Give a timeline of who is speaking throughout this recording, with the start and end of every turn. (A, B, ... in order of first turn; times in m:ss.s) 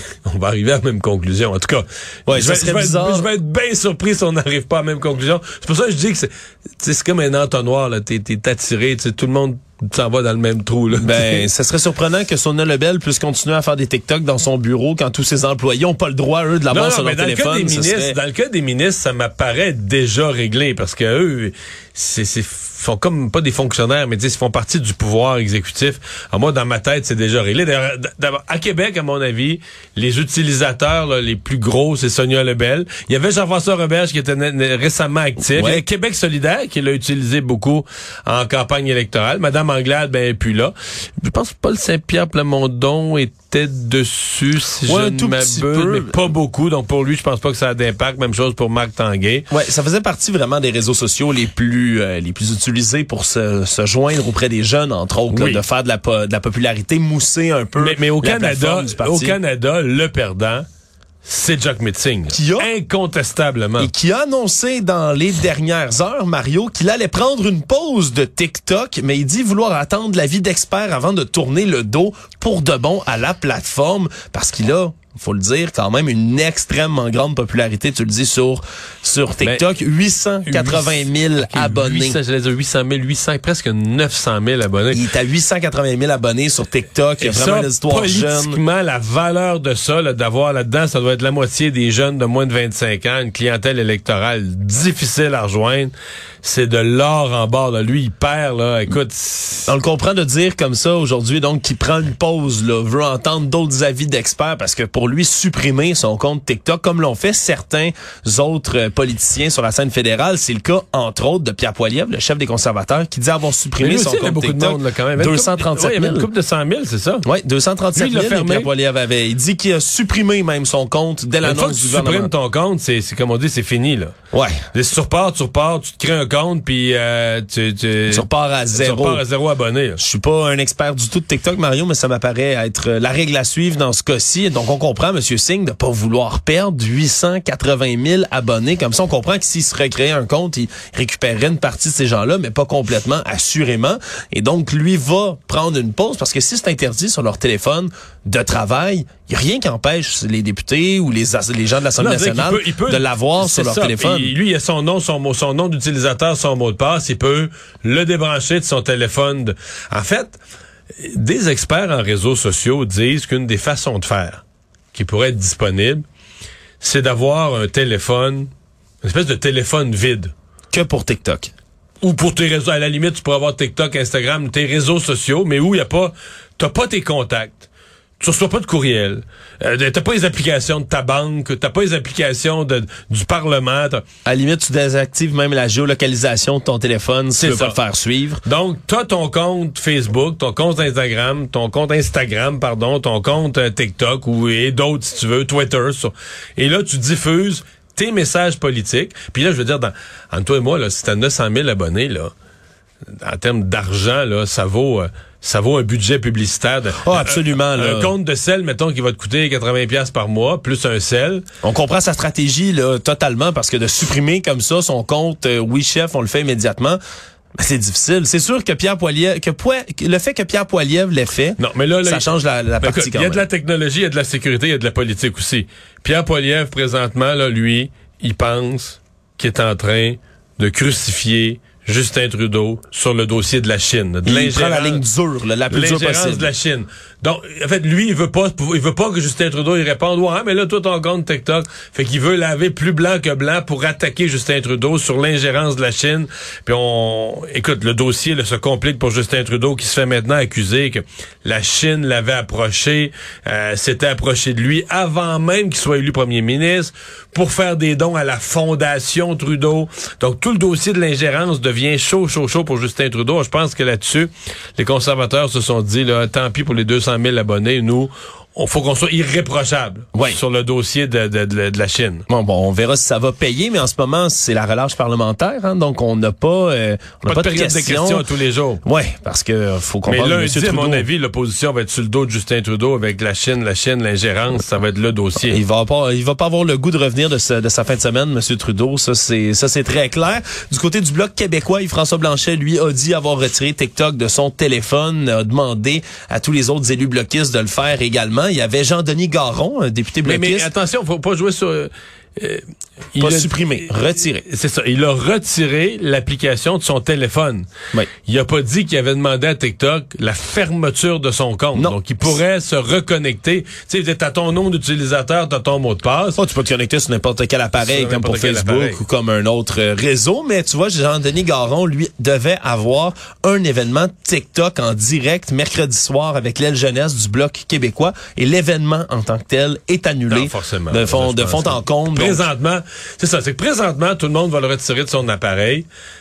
0:00.3-0:11.4 A
0:02.3-0:03.3 B
0:11.0-0:18.2 B
0:16.7-0:49.5 A
0:35.5-0:35.8 B
0:44.9-0:46.3 B
0:49.5-0:59.4 B
0:55.3-0:55.6 A
0:57.8-1:00.7 A
1:01.2-1:03.9 A
1:02.3-1:02.7 B
1:03.8-1:22.2 B
1:20.5-1:25.0 A
1:24.9-1:28.6 B
1:27.2-1:35.9 A
1:36.4-1:39.8 A
1:39.7-1:56.3 B
1:53.8-1:57.2 A
1:57.2-2:02.3 B
1:57.9-1:58.7 A
2:01.4-2:04.2 A
2:04.3-2:04.7 B
2:04.7-2:10.0 A
2:08.1-2:09.2 B
2:10.0-2:34.3 B
2:32.0-2:40.4 A
2:41.0-2:44.4 A
2:44.9-2:46.0 A
2:46.8-2:48.5 A
2:49.0-2:50.3 A
2:50.7-2:51.5 B
2:52.0-2:57.7 A
2:58.2-3:04.0 A
3:04.2-3:08.4 B
3:07.4-3:07.8 A
3:08.4-3:22.3 A
3:23.2-3:31.5 A
3:27.0-3:28.1 B
3:31.6-3:37.0 B
3:37.6-3:43.4 B
3:41.6-3:55.0 A
3:54.2-3:56.5 B
3:55.7-4:32.3 A
4:30.1-4:30.4 B
4:32.3-4:38.2 B
4:37.2-4:38.8 A
4:38.8-4:41.1 B
4:40.1-4:45.6 A
4:45.5-5:00.7 B
5:00.2-5:07.7 A
5:03.2-5:04.4 B
5:08.3-5:16.4 A
5:11.7-5:12.4 B
5:16.4-5:32.4 B
5:17.8-5:19.0 A
5:30.3-5:35.9 A